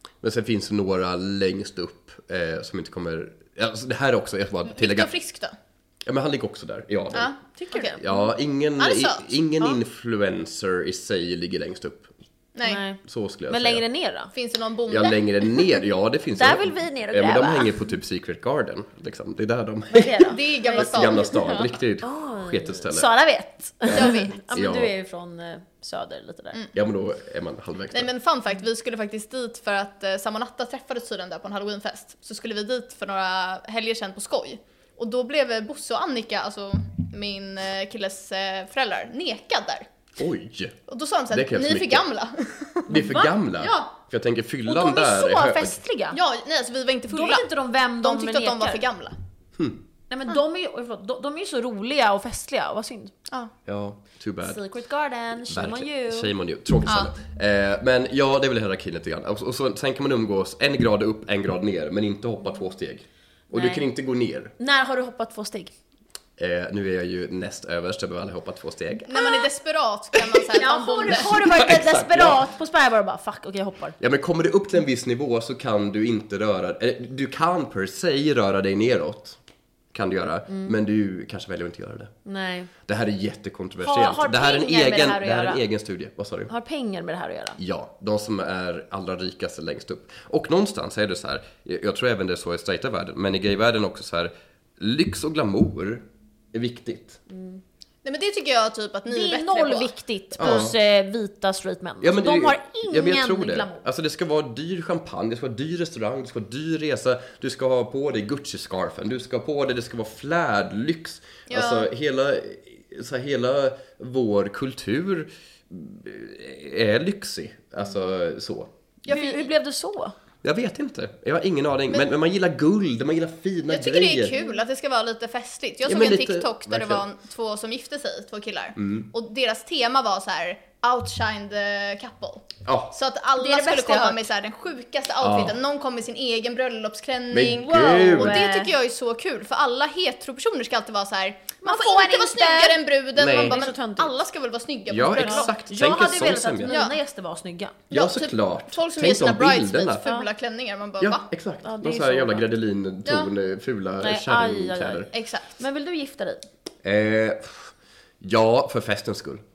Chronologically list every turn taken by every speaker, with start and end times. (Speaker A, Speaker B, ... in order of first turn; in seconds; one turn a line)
Speaker A: 0.2-5.1
Speaker B: 4.7-5.5
Speaker A: 6.0-7.3
Speaker B: 7.1-8.1
Speaker C: 7.6-8.0
Speaker A: 8.0-12.1
Speaker B: 8.8-9.3
Speaker B: 12.6-12.8
Speaker C: 12.6-14.3
Speaker A: 13.0-13.8
Speaker B: 14.3-15.2
Speaker A: 14.9-23.1
Speaker C: 16.3-17.8
Speaker C: 19.9-26.6
Speaker B: 20.2-21.6
Speaker A: 23.9-24.9
Speaker B: 23.9-24.4
Speaker A: 26.7-28.1
Speaker B: 27.9-39.9
Speaker A: 40.2-40.8
Speaker B: 40.9-43.9
Speaker A: 41.3-42.0
Speaker C: 42.9-43.3
Speaker A: 42.9-45.8
Speaker C: 44.6-46.2
Speaker B: 46.1-47.5
Speaker C: 47.1-48.8
Speaker B: 48.0-49.1
Speaker C: 50.1-53.1
Speaker A: 53.6-54.6
Speaker C: 54.4-56.3
Speaker A: 55.5-64.5
Speaker B: 56.9-57.1
Speaker C: 63.5-63.9
Speaker C: 64.6-65.7
Speaker A: 66.4-69.2
Speaker B: 69.1-71.4
Speaker C: 70.5-74.0
Speaker A: 71.1-72.5
Speaker A: 74.0-79.4
Speaker A: 79.9-82.1
Speaker C: 80.5-80.8
Speaker C: 82.2-82.7
Speaker A: 82.9-86.5
Speaker C: 83.8-85.6
Speaker C: 86.5-87.6
Speaker A: 87.6-97.2
Speaker C: 97.3-97.6
Speaker B: 98.0-100.7
Speaker C: 99.1-103.8
Speaker A: 100.4-100.8
Speaker A: 102.0-118.7
Speaker B: 111.5-111.9
Speaker B: 119.1-119.5
Speaker C: 119.1-120.2
Speaker A: 120.4-124.4
Speaker B: 123.7-145.5
Speaker C: 124.3-124.6
Speaker A: 125.8-127.0
Speaker A: 128.8-129.1
Speaker A: 132.7-132.9
Speaker C: 133.4-134.3
Speaker A: 135.2-135.6
Speaker A: 137.3-138.4
Speaker C: 137.7-138.7
Speaker C: 141.6-144.2
Speaker A: 143.2-143.6
Speaker A: 144.9-146.8
Speaker C: 145.2-147.8
Speaker B: 146.7-147.0
Speaker B: 147.9-151.2
Speaker A: 147.9-150.0
Speaker A: 151.0-155.1
Speaker C: 151.6-152.5
Speaker B: 153.0-153.3
Speaker C: 154.0-156.4
Speaker B: 155.1-155.5
Speaker A: 156.8-159.4